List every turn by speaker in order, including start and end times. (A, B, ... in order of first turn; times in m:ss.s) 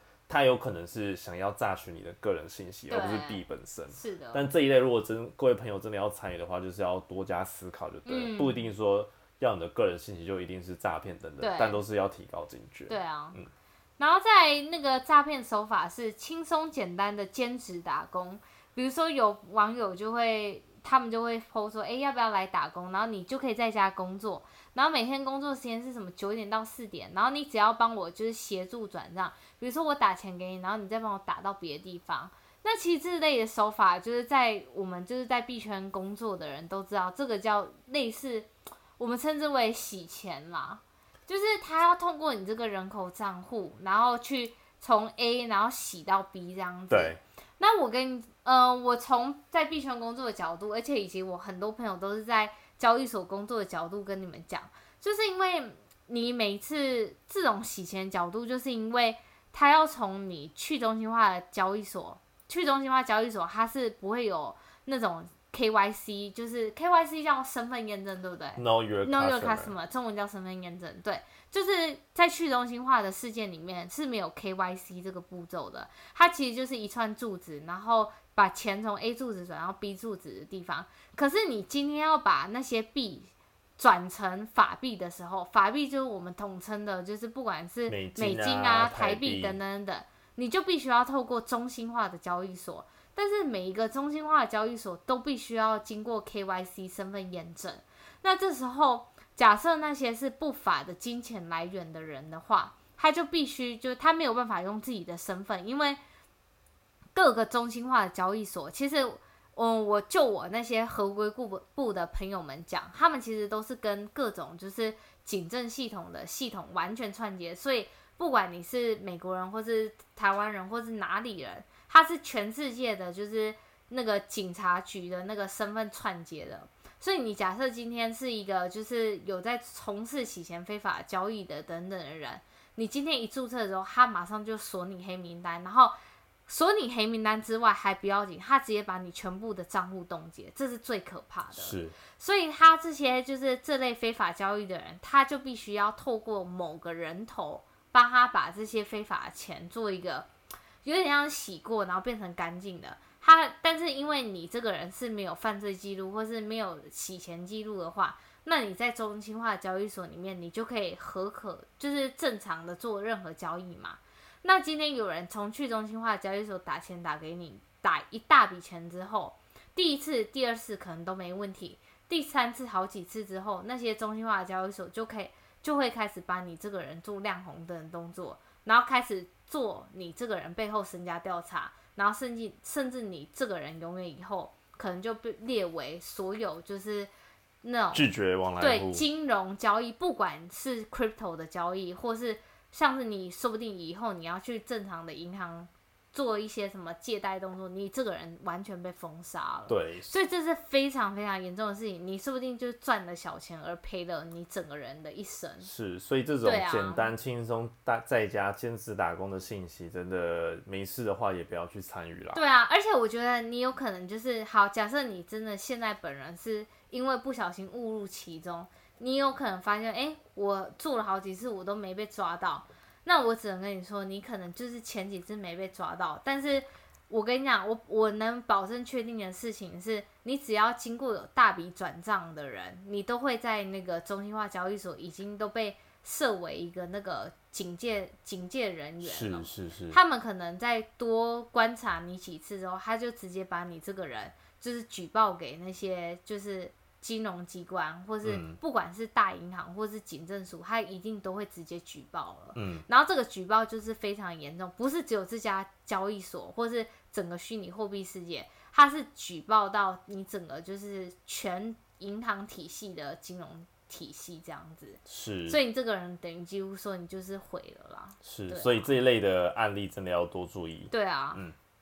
0:00.3-0:13.5 A
0:02.9-0:03.4 B
0:03.9-0:04.4 B
0:08.0-0:08.7 B
0:11.4-0:11.8 B
0:12.9-0:13.4 B
0:14.0-1:46.0 B
0:46.9-0:47.2 A
1:08.6-1:09.7 A
1:27.9-1:29.6 A
1:47.1-2:15.9 B
2:16.5-2:30.3 B
2:21.5-2:22.0 A
2:30.8-3:07.1 B
3:07.6-3:08.1 B
3:07.9-3:09.0 A
3:08.6-3:25.7 B
3:19.7-3:20.1 A
3:25.6-3:32.4 A
3:26.4-3:27.1 B
3:32.3-4:28.9 B
3:59.0-4:00.0 A
4:08.2-4:08.6 A
4:12.5-4:12.8 A
4:25.1-4:25.6 A
4:28.2-4:31.5 A
4:30.9-4:31.4 B